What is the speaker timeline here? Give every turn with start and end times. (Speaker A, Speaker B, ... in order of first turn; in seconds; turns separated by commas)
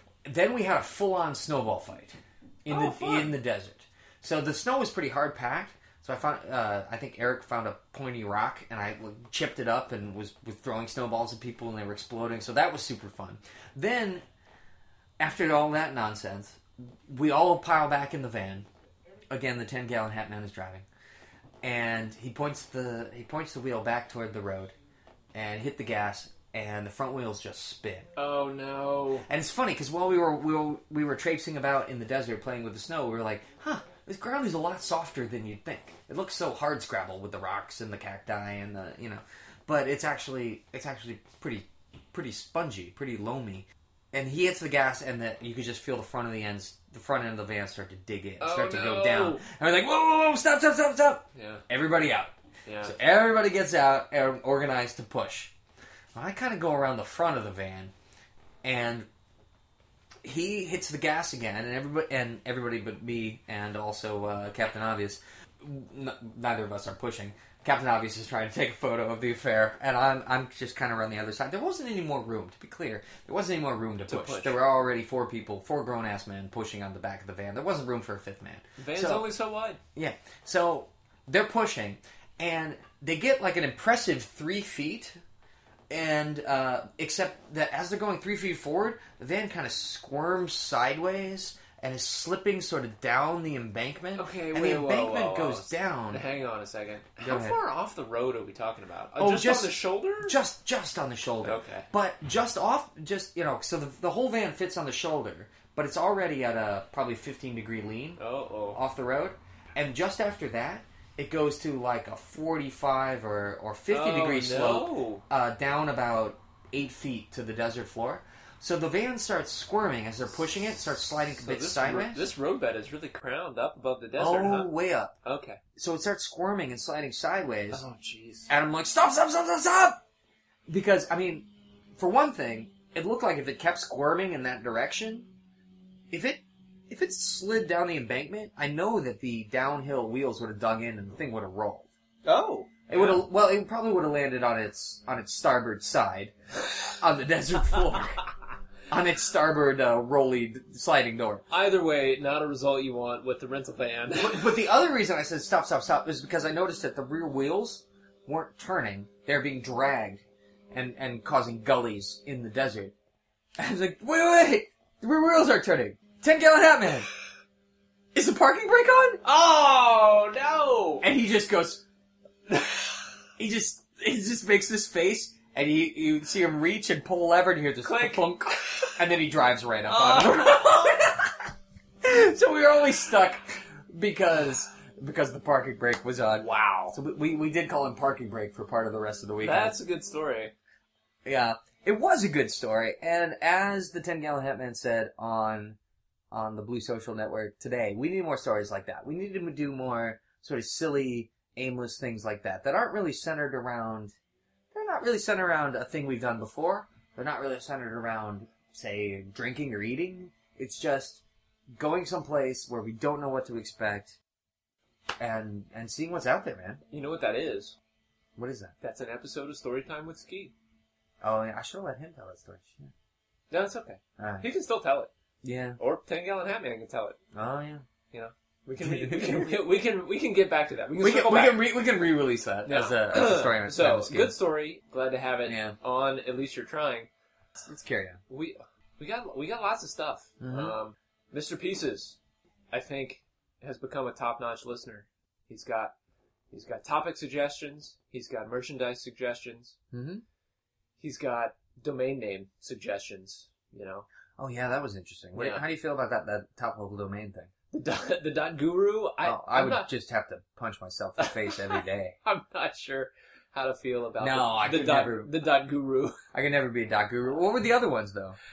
Speaker A: 0.2-14.2, Speaker B: 2.7-3.4, Speaker A: 15.2-18.7, Speaker A: 19.3-20.9, Speaker A: 21.6-24.7, Speaker A: 25.3-28.1, Speaker B: 28.2-29.3, Speaker A: 29.3-55.5, Speaker B: 48.4-49.4, Speaker B: 51.4-51.6, Speaker B: 52.7-53.0, Speaker A: 56.1-57.9, Speaker A: 58.6-59.1, Speaker A: 60.2-79.3, Speaker B: 74.1-74.6, Speaker B: 78.8-79.8, Speaker A: 80.0-85.2, Speaker A: 85.9-96.2, Speaker B: 94.2-100.4, Speaker A: 97.2-97.6, Speaker A: 99.2-108.2, Speaker B: 101.4-101.9, Speaker B: 108.2-108.8, Speaker A: 108.7-122.3, Speaker B: 113.9-115.2, Speaker B: 121.4-124.7, Speaker A: 124.2-125.1, Speaker B: 125.2-125.6, Speaker A: 125.8-127.8, Speaker B: 127.7-128.5, Speaker A: 128.5-130.0, Speaker A: 130.7-135.3, Speaker A: 136.1-141.9, Speaker B: 142.2-143.2, Speaker A: 142.9-146.3, Speaker A: 146.9-148.2, Speaker A: 148.9-151.4, Speaker B: 151.5-154.6, Speaker A: 154.2-162.9, Speaker A: 163.6-167.1, Speaker A: 168.1-169.2, Speaker B: 169.2-171.1, Speaker A: 171.0-171.8, Speaker A: 173.4-181.3, Speaker B: 177.8-178.9, Speaker B: 179.9-180.9, Speaker A: 182.0-189.8, Speaker B: 186.4-187.0, Speaker B: 189.4-190.5, Speaker A: 191.2-195.8, Speaker A: 196.3-204.1, Speaker A: 204.7-211.2, Speaker A: 211.8-214.2, Speaker A: 215.2-216.8, Speaker B: 216.9-217.8, Speaker A: 218.4-218.7, Speaker B: 218.8-220.5, Speaker A: 221.2-222.9, Speaker B: 223.5-225.1, Speaker A: 224.2-224.5, Speaker A: 225.4-225.8, Speaker B: 225.8-227.2, Speaker A: 227.3-227.8, Speaker B: 228.1-231.7, Speaker A: 228.8-229.5, Speaker A: 231.0-234.3, Speaker B: 232.7-237.1, Speaker A: 235.5-235.8, Speaker A: 237.6-238.2, Speaker B: 238.3-242.2, Speaker A: 240.4-240.7, Speaker B: 242.7-245.9, Speaker B: 246.5-249.8, Speaker A: 249.9-250.2, Speaker B: 251.0-254.1, Speaker A: 254.4-257.5, Speaker B: 255.3-255.6, Speaker B: 257.7-259.9, Speaker A: 259.2-262.2, Speaker B: 261.2-266.2, Speaker A: 264.2-265.3, Speaker A: 266.3-268.4